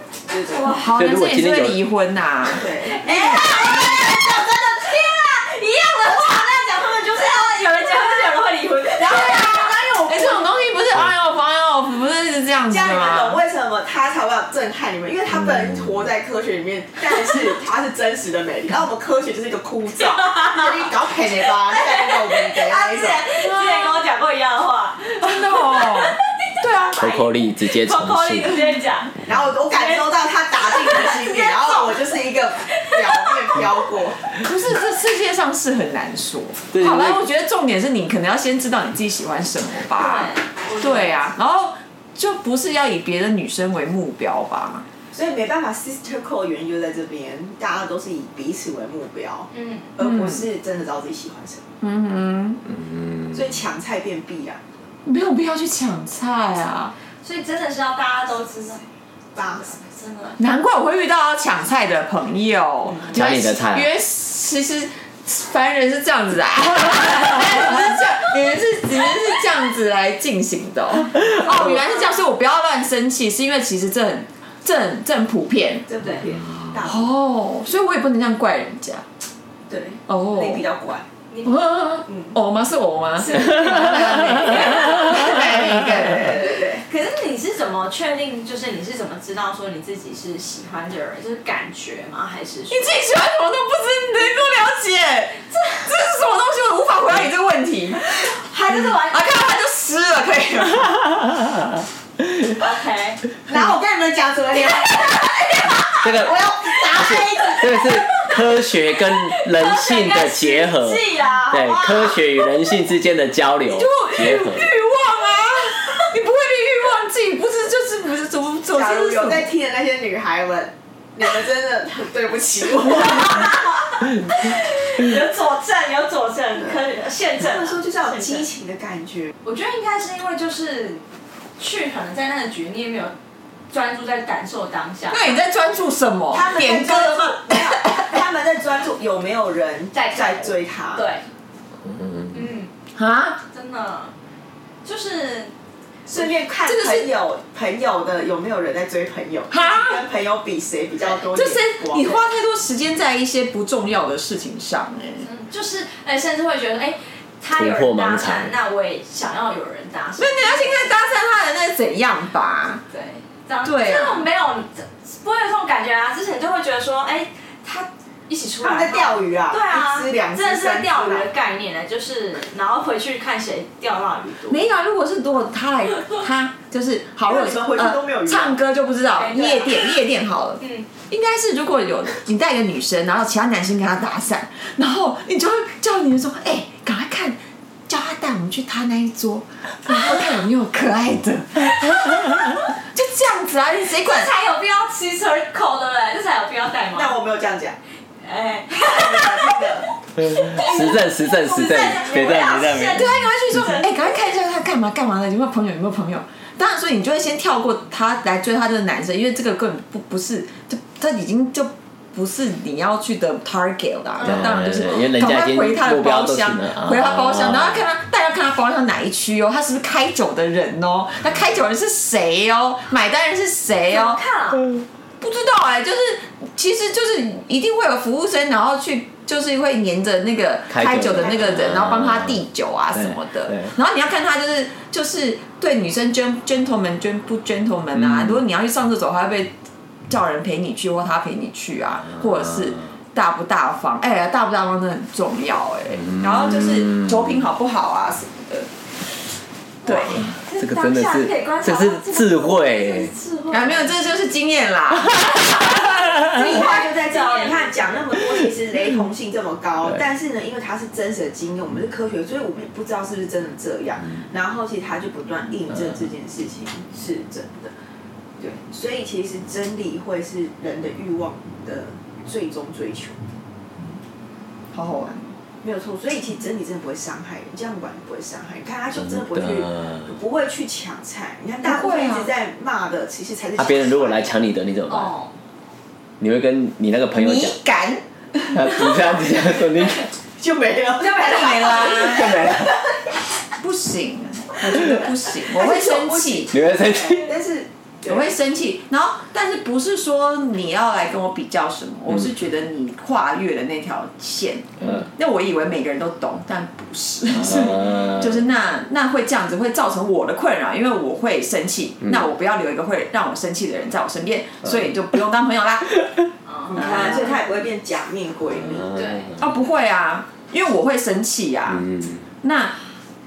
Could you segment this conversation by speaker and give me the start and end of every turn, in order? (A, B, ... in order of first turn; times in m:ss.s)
0:00.3-0:00.8 A
0:00.5-0:02.8 B
0:01.0-0:01.8 C
0:02.5-0:04.2 A
0:02.8-0:10.4 D
0:06.0-0:07.6 A
0:09.0-0:10.3 A
0:10.1-0:13.4 B
0:12.7-0:23.6 A
0:21.7-0:32.0 D
0:25.2-0:27.0 B
0:27.0-0:28.7 C
0:29.3-0:34.4 A
0:32.7-0:33.6 D
0:34.4-0:44.9 B
0:36.7-0:37.2 C
0:40.0-0:41.2 D
0:45.1-0:51.6 A
0:49.5-0:49.9 D
0:50.0-0:50.4 B
0:51.8-0:52.6 B
0:52.7-0:53.4 C
0:53.3-0:54.6 A
0:55.0-0:56.9 B
0:57.2-0:58.8 D
0:59.4-0:59.7 A
0:59.6-1:00.4 D
1:00.4-1:15.9 B
1:03.1-1:03.9 C
1:15.9-1:17.1 A
1:16.8-1:19.0 B
1:19.7-1:21.1 A
1:20.1-1:20.6 B
1:21.3-1:21.6 D
1:21.4-1:26.6 B
1:23.3-1:26.8 A
1:26.8-1:33.0 D
1:32.7-1:41.3 B
1:38.3-1:39.4 D
1:42.6-1:43.2 D
1:43.5-1:47.8 A
1:45.1-1:45.9 D
1:46.0-1:54.7 C
1:47.6-1:48.4 D
1:49.1-1:51.8 D
1:51.5-1:52.1 A
1:53.7-1:59.5 B
1:58.7-2:03.6 A
2:02.9-2:08.5 D
2:07.4-2:09.3 A
2:09.4-2:11.0 D
2:11.6-2:13.2 D
2:13.7-2:15.4 D
2:15.1-2:18.1 B
2:16.3-2:21.1 A
2:19.9-2:21.2 D
2:21.8-2:22.3 C
2:22.3-2:22.7 D
2:23.0-2:23.4 B
2:23.5-2:24.1 D
2:24.8-2:25.5 D
2:26.1-2:32.2 A
2:26.6-2:27.1 B
2:29.5-2:30.0 B
2:31.3-2:35.3 B
2:35.2-2:40.9 D
2:37.6-2:38.5 C
2:40.2-2:42.8 B
2:42.9-2:54.6 D
2:43.6-2:44.2 B
2:48.6-2:51.3 A
2:54.5-3:14.3 B
2:57.2-2:58.6 A
2:59.2-2:59.8 D
3:00.6-3:00.9 D
3:14.0-3:17.2 D
3:16.9-3:17.8 A
3:18.2-3:23.9 D
3:18.7-3:19.9 A
3:20.3-3:23.2 C
3:20.6-3:23.0 A
3:23.0-3:44.2 B
3:34.2-3:37.8 C
3:43.9-3:44.6 D
3:45.2-3:59.5 B
3:50.7-3:52.4 C
3:53.0-3:53.7 C
4:00.1-4:08.7 B
4:09.8-4:10.3 B
4:09.8-4:14.0 D
4:10.6-4:13.1 C
4:13.5-4:15.9 B
4:16.2-4:27.7 A
4:16.3-4:18.0 D
4:28.4-4:33.2 A
4:34.7-4:35.3 B
4:35.6-4:44.3 A
4:39.2-4:39.7 C
4:41.6-4:42.3 B
4:43.6-4:45.1 C
4:44.9-4:45.3 D
4:46.2-4:47.6 C
4:47.2-4:48.0 B
4:48.5-4:50.1 C
4:50.4-4:53.0 A
4:51.0-4:52.4 B
4:52.0-4:52.7 C
4:53.6-4:56.5 B
4:54.8-4:58.3 A
4:56.5-4:57.4 C
4:58.1-5:16.0 B
5:16.5-5:17.2 D
5:16.7-5:19.0 A
5:16.8-5:17.3 B
5:18.9-5:19.3 D
5:19.4-5:21.9 B
5:21.8-5:22.2 C
5:22.4-5:22.8 B